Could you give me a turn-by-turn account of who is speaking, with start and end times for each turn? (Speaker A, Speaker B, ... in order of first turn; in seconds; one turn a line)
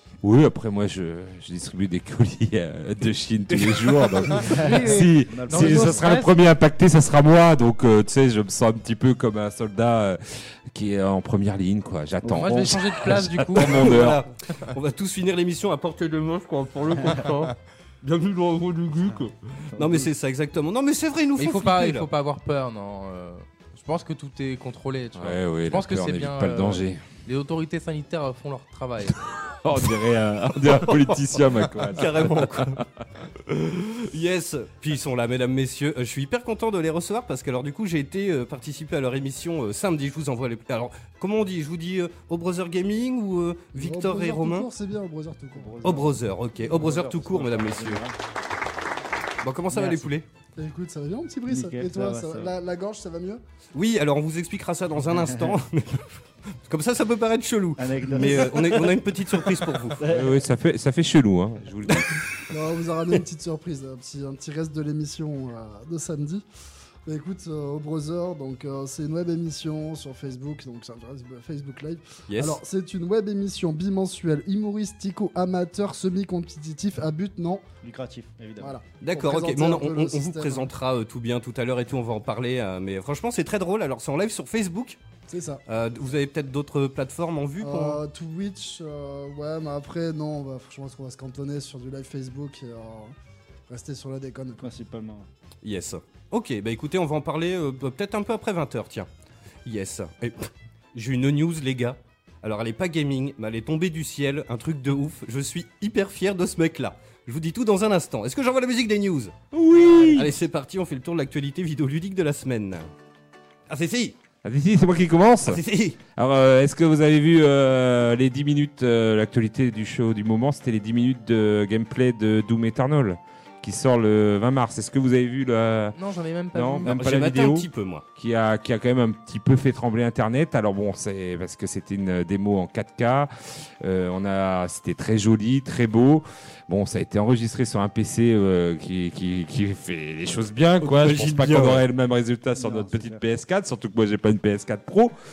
Speaker A: 0.2-14.2
Speaker B: 3.5-4.6
Speaker C: 4.5-6.4
Speaker D: 4.6-6.1
Speaker D: 12.2-13.0
Speaker C: 12.3-14.1
Speaker B: 13.5-22.1
Speaker D: 19.8-20.1
Speaker C: 21.4-29.1
Speaker A: 25.2-27.0
Speaker A: 29.1-33.0
Speaker B: 30.7-31.0
Speaker B: 31.8-32.8
Speaker B: 33.4-44.7
Speaker E: 43.7-46.1
Speaker D: 45.5-48.1
Speaker B: 45.8-48.0
Speaker B: 49.4-50.3
Speaker D: 49.7-50.1
Speaker E: 50.5-53.4
Speaker D: 51.5-52.5
Speaker B: 53.7-60.0
Speaker D: 55.1-55.5
Speaker D: 57.8-60.4
Speaker E: 58.1-58.9
Speaker A: 60.0-62.2
Speaker E: 62.5-66.4
Speaker E: 67.0-77.6
Speaker B: 72.3-72.6
Speaker D: 77.8-78.8
Speaker E: 78.6-80.7
Speaker B: 79.0-85.0
Speaker E: 85.3-85.6
Speaker B: 85.7-88.0
Speaker E: 87.6-93.1
Speaker E: 93.7-94.6
Speaker D: 94.6-95.3
Speaker B: 95.6-99.1
Speaker B: 99.7-109.4
Speaker A: 109.5-110.3
Speaker B: 109.9-112.9
Speaker B: 113.7-114.2
Speaker A: 114.4-115.6
Speaker B: 115.5-116.0
Speaker A: 116.2-126.0
Speaker C: 125.9-126.9
Speaker A: 126.5-145.1
Speaker B: 126.9-128.0
Speaker B: 140.8-141.8
Speaker D: 142.6-143.2